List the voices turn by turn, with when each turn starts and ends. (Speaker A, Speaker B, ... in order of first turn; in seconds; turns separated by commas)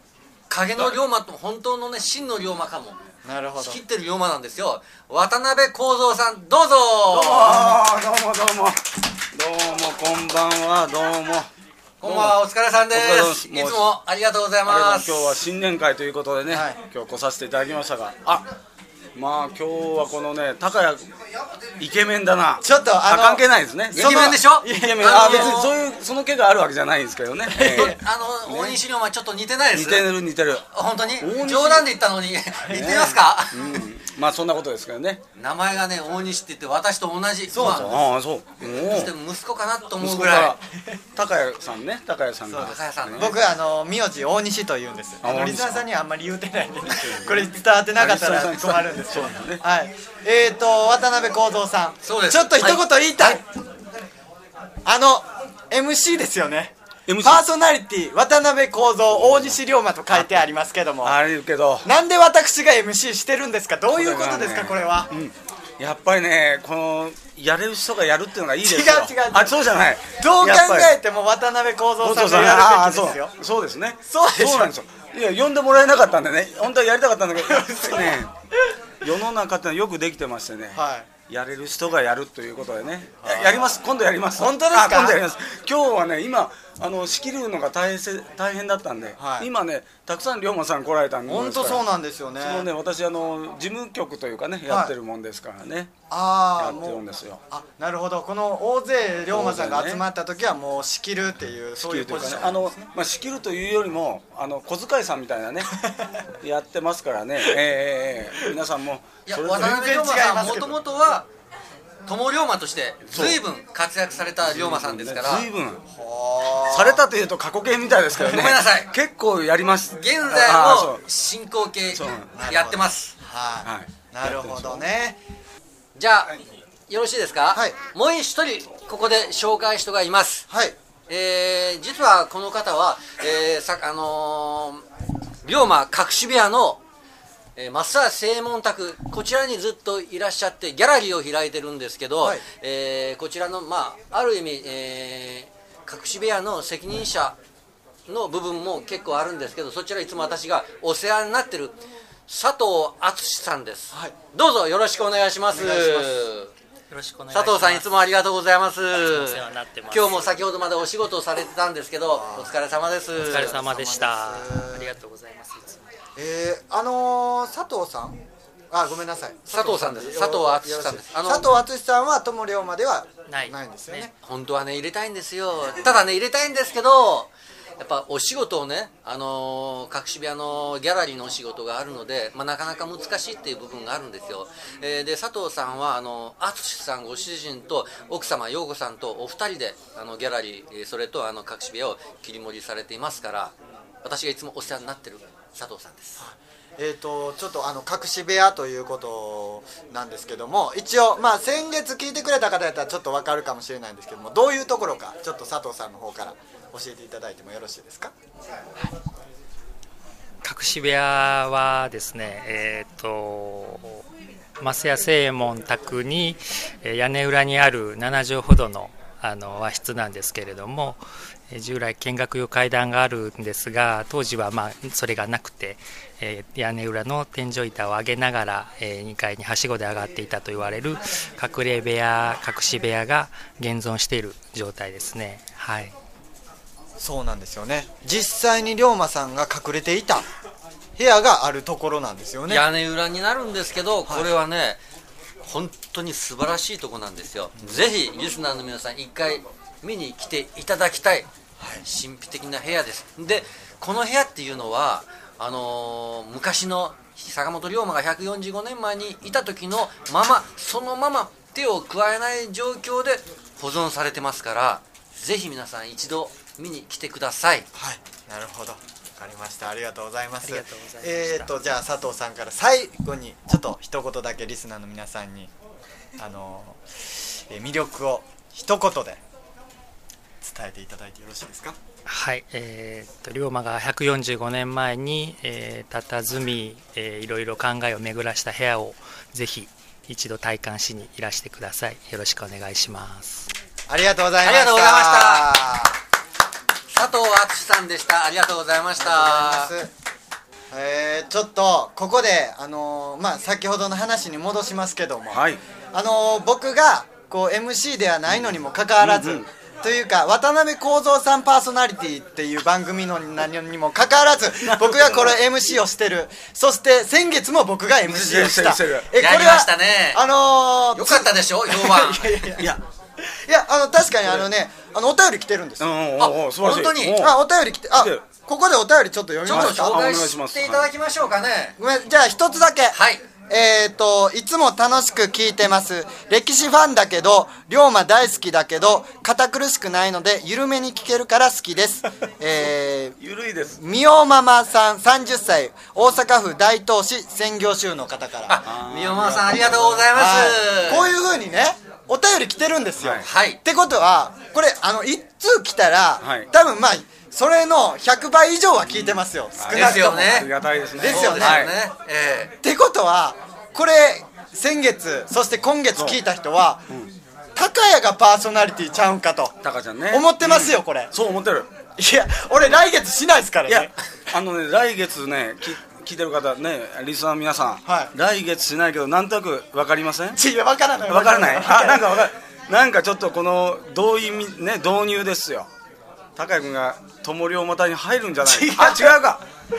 Speaker A: 0.5-3.0, Speaker B: 3.2-3.8, Speaker A: 3.6-7.6, Speaker C: 7.1-8.8, Speaker B: 7.5-7.8, Speaker C: 9.3-11.5, Speaker A: 12.0-15.3, Speaker C: 12.0-12.4, Speaker C: 12.9-13.9, Speaker C: 14.7-18.5, Speaker B: 16.5-16.8, Speaker C: 19.1-21.1, Speaker C: 21.8-28.8, Speaker B: 22.6-25.7, Speaker A: 23.9-25.7, Speaker B: 27.5-28.0, Speaker A: 27.6-30.1, Speaker C: 29.7-30.7, Speaker A: 30.7-33.8, Speaker C: 31.2-31.9, Speaker C: 32.7-35.2, Speaker B: 32.7-33.0, Speaker A: 35.4-38.0, Speaker C: 37.5-39.1, Speaker B: 37.5-37.9, Speaker A: 38.6-40.6, Speaker C: 40.0-40.6, Speaker C: 41.1-43.3, Speaker B: 42.5-53.4, Speaker A: 42.6-43.3, Speaker C: 45.2-45.9, Speaker C: 46.9-49.6, Speaker A: 52.0-53.4, Speaker B: 54.8-61.2, Speaker C: 57.1-57.4, Speaker C: 59.1-59.6, Speaker C: 60.1-60.5, Speaker C: 61.0-61.9, Speaker B: 61.8-65.1, Speaker C: 63.9-70.9, Speaker B: 68.6-73.3, Speaker C: 72.0-78.3, Speaker B: 74.0-74.7, Speaker B: 77.4-78.2, Speaker C: 79.0-91.8, Speaker B: 80.7-81.1, Speaker B: 83.2-83.8, Speaker B: 84.3-85.2, Speaker B: 89.2-89.5, Speaker B: 91.2-92.7, Speaker C: 92.4-95.9, Speaker B: 94.7-94.9, Speaker B: 96.1-102.9, Speaker C: 96.6-97.4, Speaker C: 99.3-100.0, Speaker C: 101.8-105.7, Speaker B: 105.8-106.1, Speaker C: 106.4-109.8, Speaker A: 109.2-111.3, Speaker B: 109.5-110.8, Speaker A: 112.0-115.5, Speaker C: 113.1-113.4, Speaker C: 114.4-115.8, Speaker B: 115.8-117.0, Speaker C: 116.7-121.0, Speaker A: 118.2-118.9, Speaker A: 120.0-123.1, Speaker C: 121.9-122.3, Speaker B: 122.3-125.2, Speaker C: 123.6-124.8, Speaker A: 125.9-126.4, Speaker A: 126.9-130.5, Speaker B: 130.5-130.8, Speaker A: 131.1-134.8, Speaker A: 135.4-136.8, Speaker A: 137.6-147.4, Speaker A: 148.1-156.5, Speaker B: 153.9-154.2, Speaker B: 155.5-156.3, Speaker D: 156.9-157.8, Speaker A: 157.3-163.7, Speaker D: 158.9-160.3, Speaker B: 162.1-162.5, Speaker D: 163.2-165.8, Speaker B: 163.3-164.9, Speaker B: 166.2-168.2, Speaker B: 168.7-174.1, Speaker A: 169.5-171.5, Speaker D: 173.3-174.1, Speaker A: 174.2-196.2, Speaker B: 196.2-208.1, Speaker D: 210.4-214.0, Speaker D: 214.6-235.9, Speaker B: 237.0-240.2, Speaker B: 241.0-242.7, Speaker A: 242.5-244.8, Speaker A: 245.4-251.3, Speaker A: 251.8-267.7, Speaker B: 267.7-275.5, Speaker D: 270.4-271.5, Speaker B: 276.2-279.2, Speaker B: 280.4-281.8, Speaker D: 282.1-293.5, Speaker B: 293.9-295.9, Speaker A: 294.4-295.5, Speaker A: 296.9-299.7, Speaker B: 299.0-299.9, Speaker B: 300.7-325.9, Speaker C: 305.3-305.6, Speaker C: 308.3-309.5, Speaker C: 314.6-315.4, Speaker C: 318.0-319.1, Speaker A: 319.2-320.2, Speaker A: 320.9-322.7, Speaker C: 325.8-327.4, Speaker A: 326.2-327.3, Speaker B: 327.1-330.2, Speaker C: 327.9-328.2, Speaker A: 329.4-331.8, Speaker C: 329.5-330.9, Speaker B: 331.8-343.2, Speaker A: 332.9-333.2, Speaker C: 343.2-343.8, Speaker B: 343.8-348.6, Speaker A: 348.5-351.1, Speaker C: 348.7-350.1, Speaker B: 350.1-361.7, Speaker C: 353.0-353.2, Speaker A: 353.2-353.6, Speaker C: 356.2-356.5, Speaker C: 358.8-361.8, Speaker A: 359.7-362.5, Speaker B: 362.6-366.9, Speaker C: 365.9-366.2, Speaker B: 367.5-369.6, Speaker C: 369.6-371.7, Speaker B: 370.1-371.1, Speaker B: 371.9-373.9, Speaker C: 373.7-380.4, Speaker B: 377.8-378.1, Speaker B: 380.3-382.3, Speaker C: 381.1-385.7, Speaker C: 386.4-389.4, Speaker A: 388.4-389.1